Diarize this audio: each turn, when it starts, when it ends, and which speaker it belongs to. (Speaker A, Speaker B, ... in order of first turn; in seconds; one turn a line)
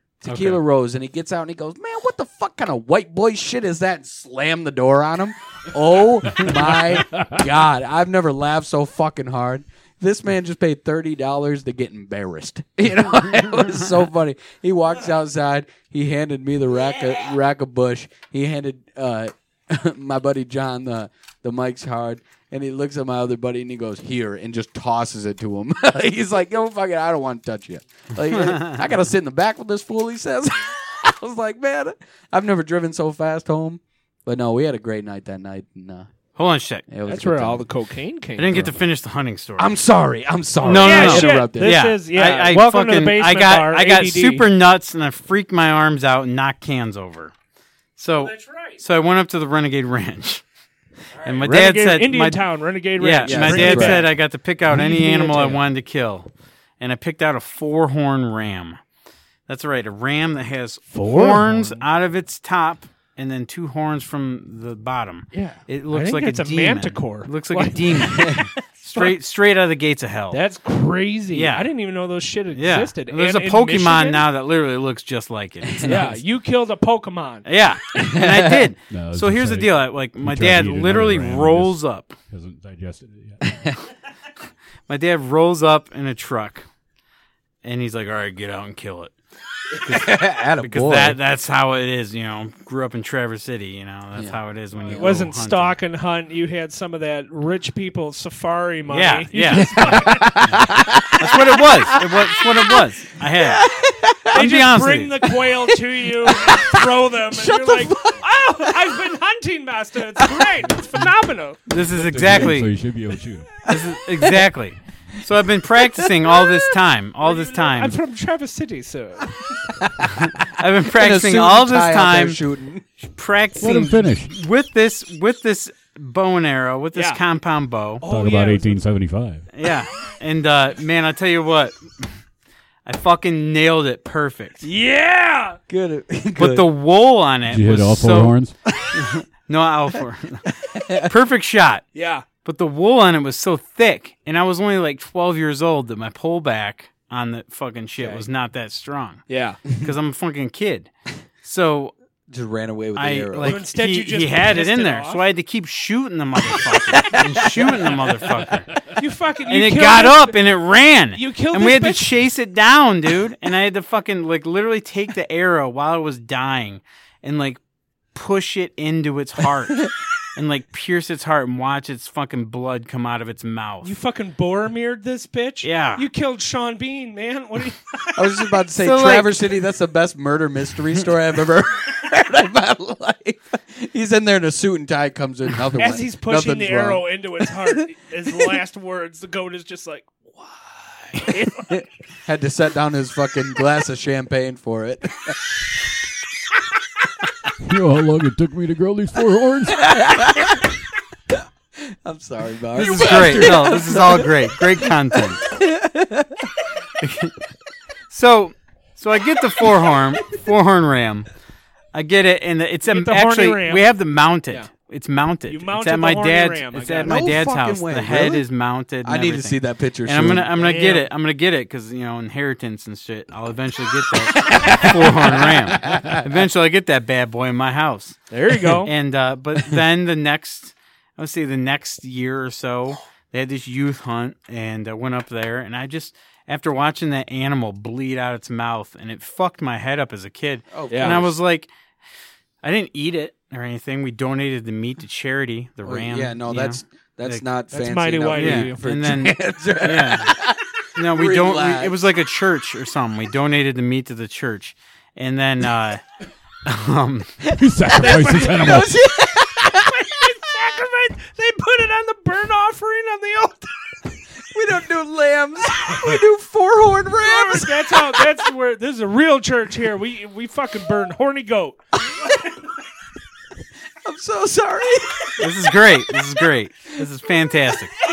Speaker A: 0.2-36.1
Speaker B: 0.3-0.6
Speaker B: 28.4-28.8
Speaker B: 36.4-36.9
Speaker A: 36.9-37.6
Speaker C: 37.1-38.7
Speaker B: 38.4-39.7
Speaker A: 39.6-41.8
Speaker B: 40.6-47.3
Speaker C: 40.8-44.5
Speaker B: 48.0-50.4
Speaker C: 48.2-48.8
Speaker C: 51.1-54.1
Speaker B: 51.2-58.8
Speaker A: 53.2-54.1
Speaker C: 54.7-55.6
Speaker B: 59.5-70.4
Speaker C: 60.9-61.8
Speaker A: 65.3-65.6
Speaker C: 65.9-69.2
Speaker C: 70.3-74.2
Speaker B: 71.3-71.7
Speaker B: 72.5-76.2
Speaker A: 75.7-76.1
Speaker C: 75.8-77.5
Speaker B: 77.5-82.2
Speaker A: 78.0-78.7
Speaker D: 78.9-83.6
Speaker A: 83.4-83.8
Speaker B: 84.9-86.7
Speaker B: 87.6-89.2
Speaker A: 89.7-91.2
Speaker B: 89.8-95.8
Speaker A: 94.2-95.2
Speaker C: 94.9-100.4
Speaker B: 98.9-99.7
Speaker A: 99.5-104.5
Speaker B: 101.2-103.7
Speaker B: 104.3-105.3
Speaker C: 104.3-111.6
Speaker A: 105.4-109.0
Speaker A: 110.2-110.5
Speaker B: 111.7-112.7
Speaker D: 111.9-113.7
Speaker B: 113.7-118.0
Speaker A: 115.8-116.7
Speaker C: 117.2-119.4
Speaker A: 119.8-122.9
Speaker B: 120.3-122.4
Speaker B: 123.2-128.0
Speaker D: 123.6-124.3
Speaker C: 126.9-127.2
Speaker C: 128.0-128.8
Speaker D: 128.1-129.5
Speaker B: 129.5-132.1
Speaker B: 132.8-134.7
Speaker C: 134.6-135.6
Speaker A: 135.7-136.7
Speaker B: 136.4-138.3
Speaker D: 137.5-138.6
Speaker B: 138.9-141.9
Speaker A: 140.6-141.1
Speaker C: 141.9-142.2
Speaker B: 142.4-150.9
Speaker C: 148.0-148.3
Speaker C: 149.3-149.6
Speaker B: 151.4-151.9
Speaker A: 152.3-153.6
Speaker B: 153.0-158.9
Speaker C: 153.4-155.2
Speaker C: 158.8-160.4
Speaker B: 159.5-167.6
Speaker C: 161.1-162.1
Speaker B: 168.1-173.9
Speaker C: 173.8-178.2
Speaker B: 175.6-176.1
Speaker A: 178.2-187.7
Speaker B: 178.8-179.4
Speaker C: 185.8-190.5
Speaker C: 191.1-191.8
Speaker A: 191.7-195.5
Speaker D: 197.6-199.9
Speaker A: 199.7-200.8
Speaker A: 201.3-206.6
Speaker B: 202.8-205.4
Speaker B: 207.0-207.3
Speaker B: 208.1-211.3
Speaker B: 211.9-228.3
Speaker C: 212.9-213.9
Speaker C: 215.5-217.2
Speaker A: 217.0-218.5
Speaker A: 219.0-220.6
Speaker C: 220.6-221.1
Speaker A: 224.5-226.2
Speaker C: 228.3-228.9
Speaker B: 228.8-241.7
Speaker A: 240.7-241.4
Speaker C: 240.9-241.2
Speaker B: 242.6-247.4
Speaker A: 245.8-252.0
Speaker C: 247.7-248.9
Speaker B: 248.3-250.4
Speaker B: 251.0-256.0
Speaker B: 256.6-257.4
Speaker D: 257.6-259.0
Speaker A: 257.9-260.0
Speaker C: 258.0-258.9
Speaker C: 259.6-264.0
Speaker A: 264.5-268.4
Speaker C: 267.2-272.6
Speaker A: 274.0-275.5
Speaker B: 275.4-277.9